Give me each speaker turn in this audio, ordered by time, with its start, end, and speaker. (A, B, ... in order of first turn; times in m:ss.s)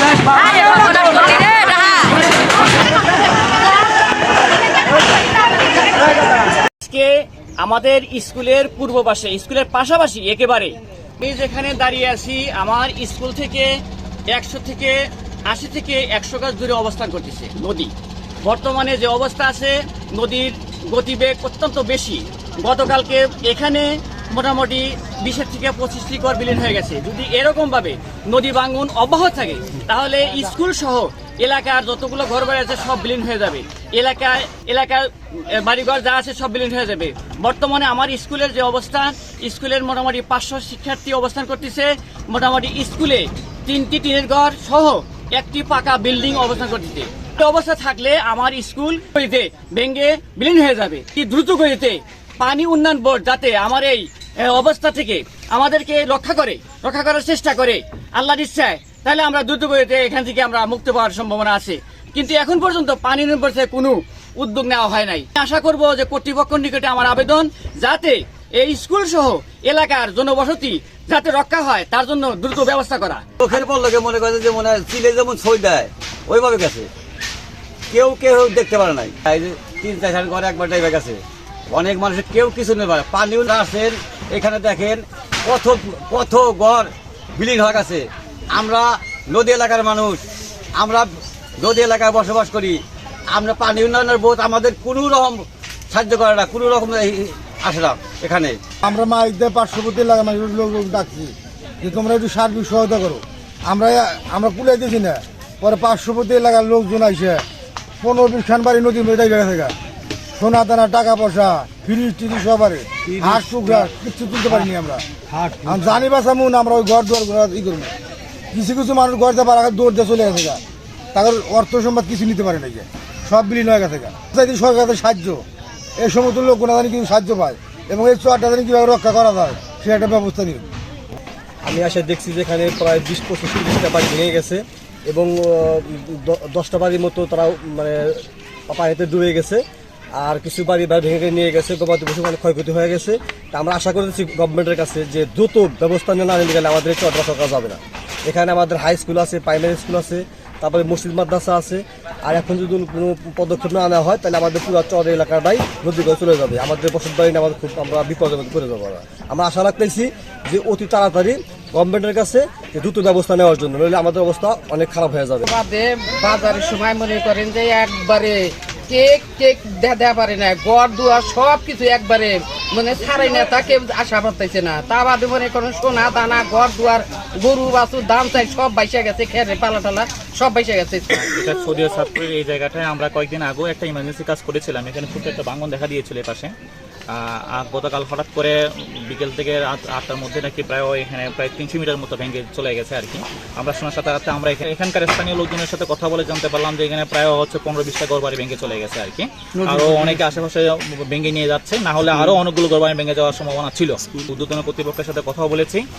0:00.5-0:02.1 A
0:06.8-0:17.9 A
0:18.4-1:13.2 A
1:13.4-1:16.9 B
1:17.9-1:30.2 B
1:30.8-1:32.8 B
1:33.3-1:38.6 B
1:38.8-1:47.4 C
1:48.0-1:49.8 C
1:50.4-1:55.0 C
1:53.1-1:53.8 B
1:55.3-1:56.0 B
1:55.6-1:57.9 C
1:58.5-2:00.6 C
2:01.1-2:05.4 C
2:06.0-2:10.7 C
2:11.6-2:19.6 D
2:20.2-2:45.5 D
2:45.4-3:01.3 E
3:01.2-3:06.5 F
3:07.1-3:08.6 F
3:09.1-3:25.8 F